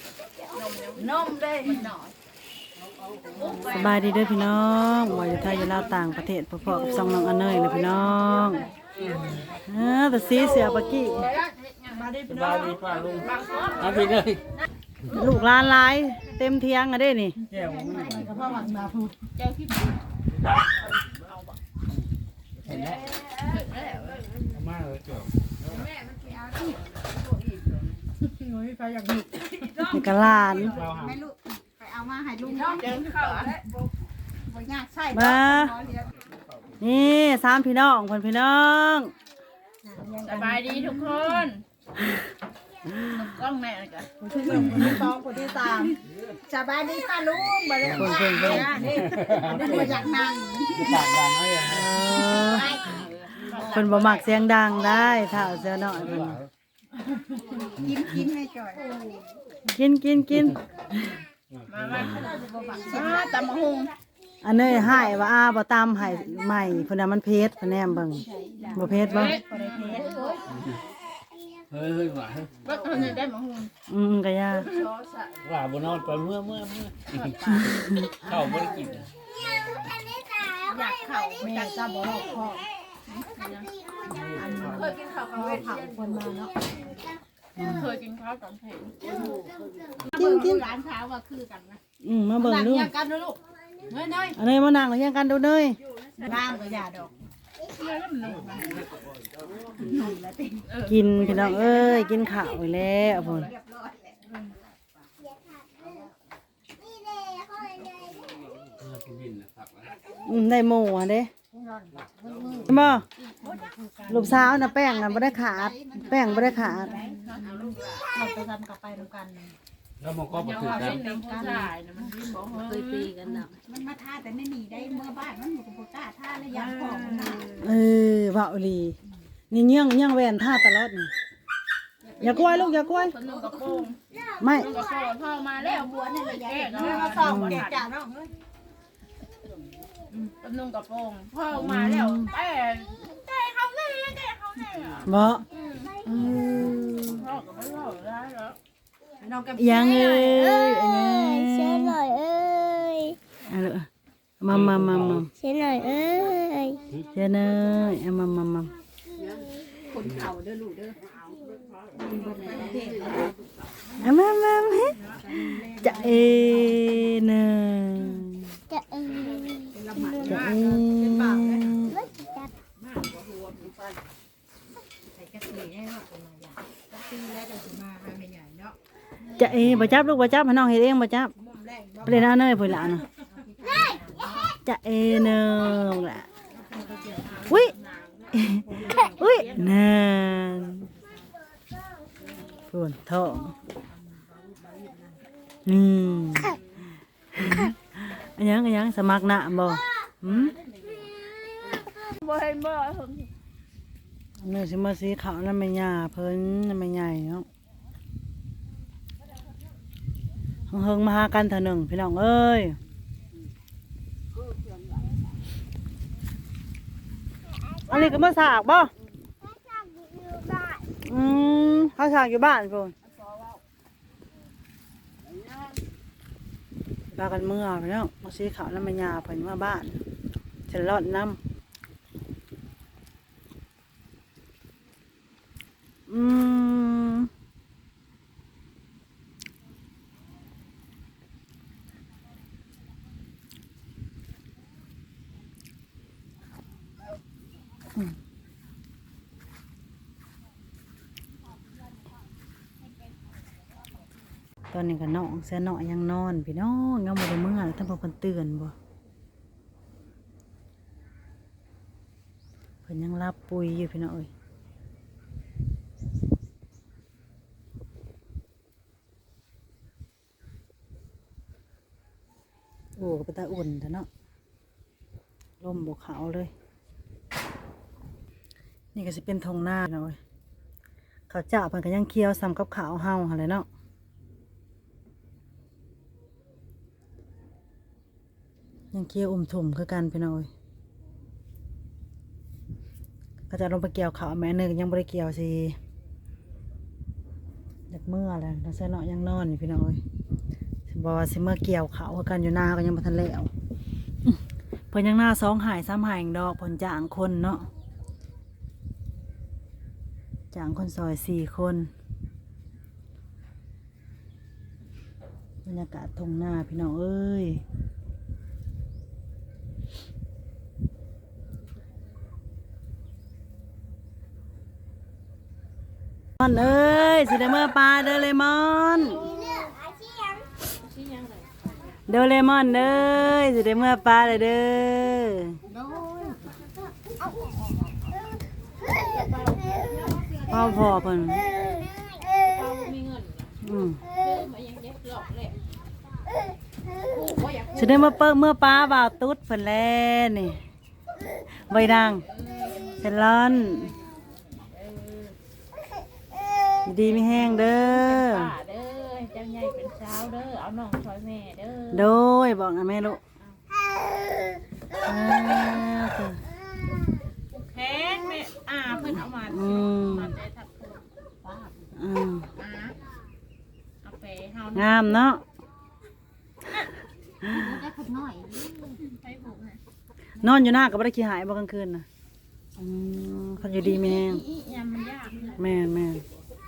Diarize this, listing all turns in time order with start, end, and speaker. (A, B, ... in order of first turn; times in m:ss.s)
0:00.5-0:02.1 A
0:01.1-0:01.9 B
0:03.3-0:04.1 A
0:03.6-0:08.7 C
0:05.1-0:06.2 A
0:09.6-0:11.3 C
0:10.4-0:12.2 A
0:12.0-0:13.2 B
0:12.4-0:13.0 D
0:12.9-0:14.3 A
0:15.1-0:17.4 C
0:17.5-0:19.3 B
0:19.4-0:20.0 A
0:21.2-0:21.6 A
0:22.7-0:24.7 A
0:25.7-0:26.8 B
0:28.2-0:33.6 B
0:29.8-0:30.8 C
0:32.4-0:33.6 A
0:34.4-0:36.1 B
0:35.1-0:35.7 C
0:36.8-0:39.1 C
0:39.8-0:41.2 B
0:40.2-0:41.6 A
0:42.9-0:44.1 A
0:44.2-0:51.1 B
0:47.9-0:48.9 C
0:51.6-0:52.8 C
0:52.2-0:53.6 B
0:52.5-0:54.3 A
0:53.6-0:56.4 C
0:57.7-0:59.2 B
0:59.7-1:01.2 C
1:01.7-1:04.0 A
1:02.0-1:03.4 B
1:04.4-1:09.4 C
1:06.2-1:06.6 B
1:08.0-1:10.6 B
1:09.0-1:10.4 A
1:11.7-1:12.2 E
1:11.9-1:12.5 D
1:12.6-1:13.7 A
1:13.9-1:14.7 C
1:14.6-1:15.4 A
1:15.5-1:16.9 D
1:17.2-1:17.6 A
1:17.5-1:18.3 C
1:18.2-1:18.9 B
1:18.6-1:18.9 D
1:20.5-1:21.9 A
1:21.4-1:22.7 B
1:23.1-1:23.8 A
1:24.2-1:26.9 B
1:24.6-1:26.4 A
1:27.6-1:27.9 C
1:27.6-1:29.3 A
1:29.1-1:31.8 B
1:30.1-1:30.6 C
1:32.0-1:32.9 C
1:32.4-1:33.4 B
1:33.9-1:34.3 B
1:34.0-1:34.3 A
1:34.3-1:35.8 C
1:36.2-1:37.1 B
1:37.6-1:38.9 A
1:39.7-1:40.7 B
1:40.7-1:42.0 A
1:40.8-1:43.5 C
1:43.2-1:44.4 B
1:45.4-1:45.7 E
1:46.8-1:48.3 E
1:48.8-1:49.2 E
1:50.2-1:51.3 C
1:51.5-1:52.7 B
1:52.7-1:53.0 C
1:53.2-1:53.6 A
1:53.4-1:59.6 B
1:54.1-1:57.0 C
1:56.8-1:58.1 A
2:00.3-2:03.5 A
2:00.3-2:01.7 B
2:02.7-2:07.5 B
2:06.5-2:07.7 A
2:07.6-2:09.0 C
2:09.5-2:11.1 C
2:12.1-2:13.2 B
2:12.2-2:14.0 A
2:12.2-2:13.1 C
2:14.4-2:14.7 C
2:14.5-2:17.9 A
2:15.6-2:18.3 B
2:17.0-2:17.6 C
2:20.3-2:26.0 A
2:21.5-2:22.3 C
2:25.0-2:25.4 C
2:26.0-2:27.2 C
2:27.1-2:28.6 A
2:29.2-2:30.8 B
2:29.6-2:32.1 C
2:31.0-2:33.2 E
2:33.4-2:33.9 C
2:34.4-2:35.3 C
2:35.3-2:36.8 E
2:37.1-2:38.7 C
2:39.9-2:41.1 B
2:42.0-2:43.3 B
2:42.0-2:43.2 A
2:44.0-2:48.6 C
2:45.0-2:46.8 B
2:48.7-2:49.8 E
2:49.1-2:50.2 A
2:49.8-2:51.9 B
2:50.2-2:52.0 C
2:52.0-2:52.5 E
2:55.1-2:58.8 B
2:59.3-3:01.3 C
3:01.4-3:02.2 B
3:02.0-3:03.1 C
3:03.1-3:04.4 B
3:04.6-3:06.3 C
3:06.6-3:07.5 B
3:07.1-3:09.8 A
3:07.4-3:07.7 C
3:08.3-3:10.9 C
3:12.7-3:13.5 C
3:14.6-3:15.1 B
3:15.6-3:16.6 C
3:17.3-3:20.5 C
3:22.0-3:23.3 A
3:24.4-3:27.4 C
3:30.7-3:32.8 C
3:37.8-3:38.9 C
3:39.5-3:40.9 E
3:41.0-3:42.9 C
3:47.1-3:50.0 C
3:50.7-3:51.4 C
3:56.1-3:57.3 C
4:14.7-4:18.7 C
4:22.8-4:24.3 C
4:33.0-4:34.1 C
4:35.6-4:36.5 C
4:38.9-4:40.2 C
4:41.3-4:43.6 C
4:48.9-4:50.5 C
4:53.5-4:55.8 C
4:57.9-5:00.0 C
5:00.9-5:03.5 C
5:04.9-5:07.6 C
5:10.5-5:11.9 C
5:15.6-5:17.6 C
5:26.4-5:29.2 C
5:29.3-5:30.5 E
5:30.7-5:31.6 A
5:32.1-5:35.6 C
5:35.7-5:36.4 B
5:35.8-5:36.3 A
5:39.0-5:40.1 A
5:40.5-5:41.5 C
5:41.6-5:42.2 E
5:42.3-5:43.5 A
5:43.6-5:44.0 C
5:44.1-5:45.6 A
5:46.9-5:48.1 A
5:47.7-5:50.6 C
5:51.6-5:52.2 C
5:51.7-5:55.4 A
5:53.0-5:53.9 C
5:56.8-5:58.5 C
5:57.0-6:02.1 A
6:01.9-6:03.2 C
6:05.0-6:06.4 C
6:07.5-6:11.1 A
6:09.5-6:10.3 C
6:11.4-6:11.7 B
6:11.9-6:12.4 C
6:12.6-6:13.0 A
6:14.0-6:15.2 A
6:14.7-6:15.4 C
6:17.4-6:19.0 B
6:18.9-6:19.8 A
6:20.4-6:22.0 C
6:22.8-6:24.4 C
6:23.7-6:25.6 A
6:25.6-6:26.2 C